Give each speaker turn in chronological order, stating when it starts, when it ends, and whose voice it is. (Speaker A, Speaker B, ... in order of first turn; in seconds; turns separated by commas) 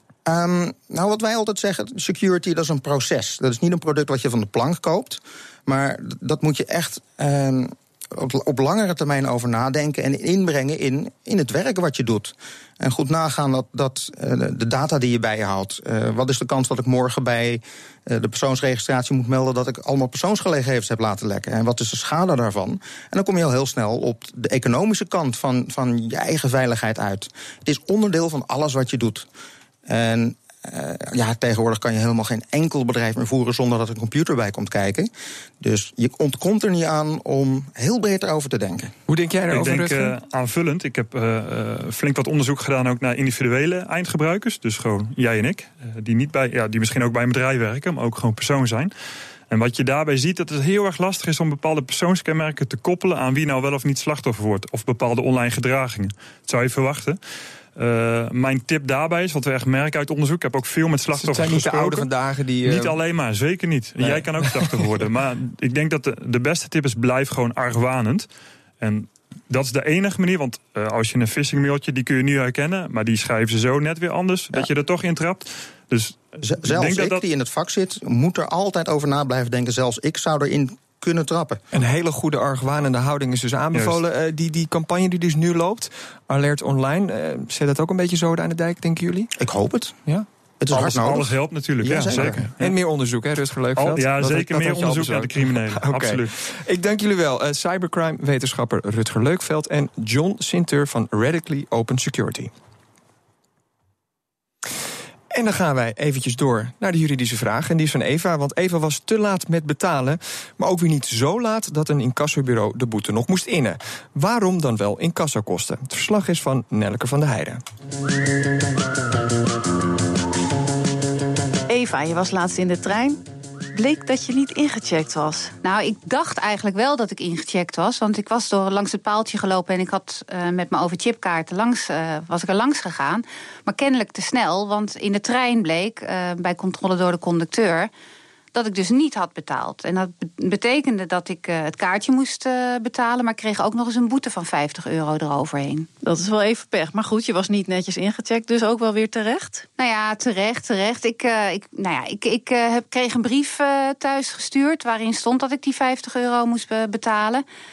Speaker A: 0.3-29.3, Speaker A: 29.9-35.1, Speaker A: 35.6-38.9, Speaker B: 39.1-40.0, Speaker C: 39.5-48.9, Speaker C: 49.5-57.2, Speaker C: 57.8-62.1, Speaker B: 61.3-62.4, Speaker C: 62.6-68.3, Speaker C: 68.8-77.2, Speaker A: 76.4-81.6, Speaker B: 81.7-89.3, Speaker C: 83.7-84.0, Speaker A: 89.4-90.0, Speaker A: 90.6-92.4, Speaker C: 90.7-92.8, Speaker B: 92.3-95.2, Speaker C: 93.8-96.3, Speaker B: 95.8-102.5, Speaker B: 105.3-117.6, Speaker D: 121.7-123.2, Speaker D: 123.7-125.5, Speaker E: 125.6-137.9, Speaker E: 138.5-145.9, Speaker D: 146.0-149.7, Speaker E: 149.8-157.4